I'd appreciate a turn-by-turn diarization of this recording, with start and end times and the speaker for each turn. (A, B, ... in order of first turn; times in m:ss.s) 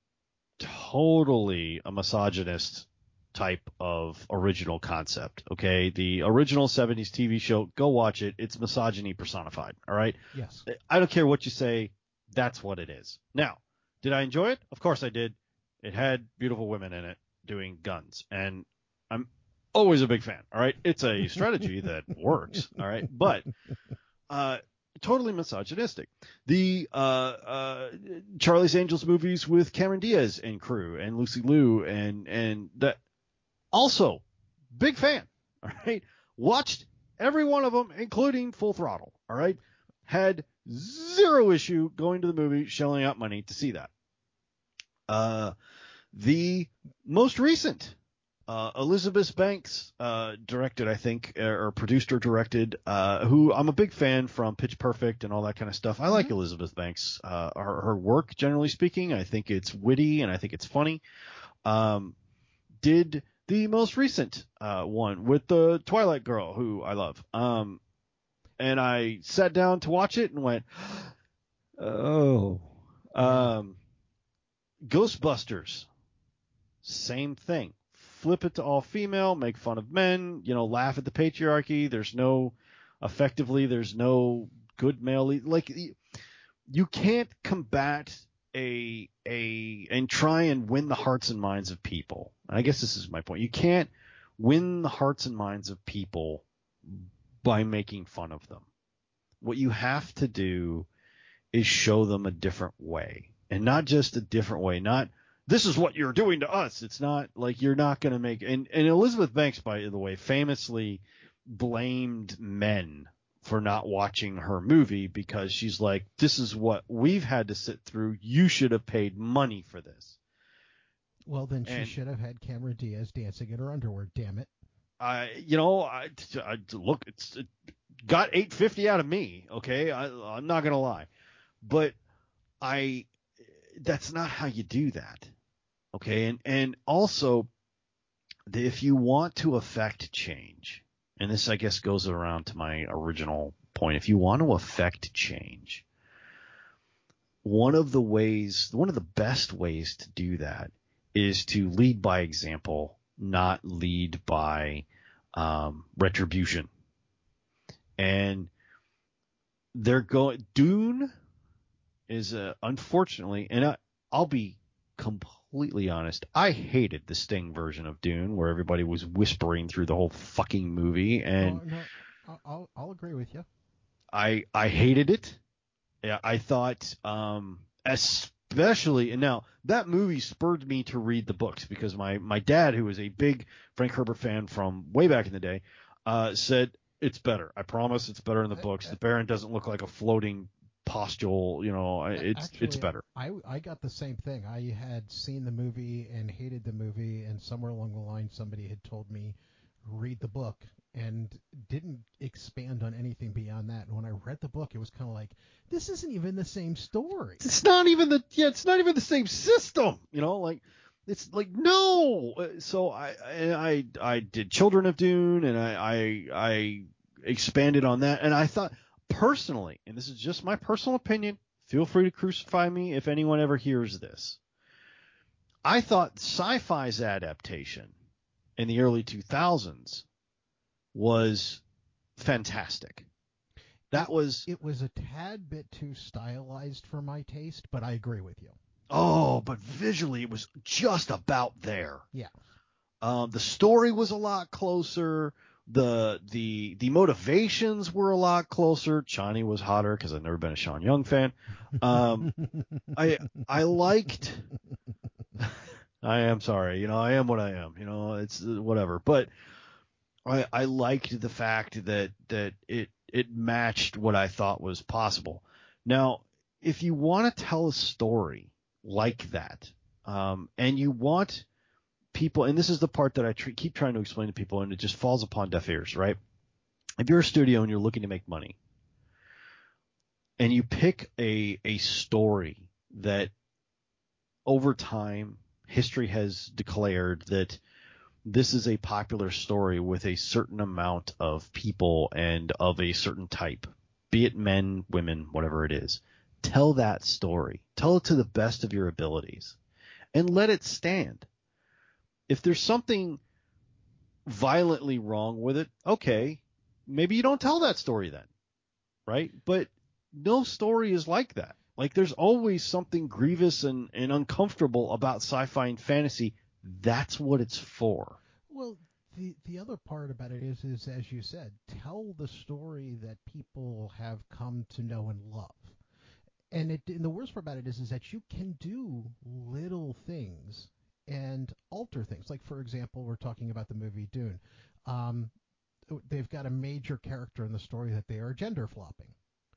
0:00.6-0:23.5 A
0:10.3-0:10.7 B
0:24.3-0:33.0 A
0:33.7-0:43.9 A
0:45.1-0:45.5 A
0:46.1-0:48.0 A
0:48.5-1:01.0 A
1:01.6-1:02.2 A
1:02.8-1:07.8 A
1:08.6-1:11.1 A
1:11.8-1:13.8 A
1:13.2-1:13.6 B
1:14.8-1:15.9 A
1:16.8-1:26.0 A
1:26.7-1:38.7 A
1:39.4-1:40.9 A
1:41.5-2:00.2 A
2:01.3-2:04.5 B
2:01.7-2:01.9 A
2:05.0-2:07.5 A
2:08.0-2:11.1 A
2:11.6-2:12.0 A
2:12.6-2:13.1 A
2:13.8-2:15.3 A
2:15.9-2:17.5 A
2:18.5-2:25.8 A
2:27.4-2:36.7 A
2:38.0-2:38.5 A
2:39.7-2:41.1 A
2:42.1-2:51.6 A
2:51.4-2:53.5 B
2:54.1-2:55.4 A
2:56.0-3:13.0 A
3:08.5-3:09.0 B
3:12.2-3:27.4 B
3:27.4-3:44.4 A
3:45.6-3:47.9 A
3:48.6-3:50.1 A
3:51.0-3:51.6 A
3:52.2-3:53.1 A
3:53.9-3:54.5 A
3:54.0-3:58.6 B
3:58.9-4:02.0 A
4:03.0-4:12.3 A
4:12.4-4:12.9 B
4:12.9-4:14.5 A
4:15.4-4:19.3 A
4:20.2-4:31.5 A
4:32.1-4:36.2 A
4:37.0-4:38.6 A
4:40.4-4:43.3 A
4:44.5-4:47.6 A
4:48.3-4:59.6 A
5:00.1-5:01.3 A
5:02.3-5:03.2 A
5:04.3-5:08.3 A
5:09.1-5:18.2 A
5:18.5-5:25.8 B
5:26.5-5:35.3 B
5:35.9-5:39.2 B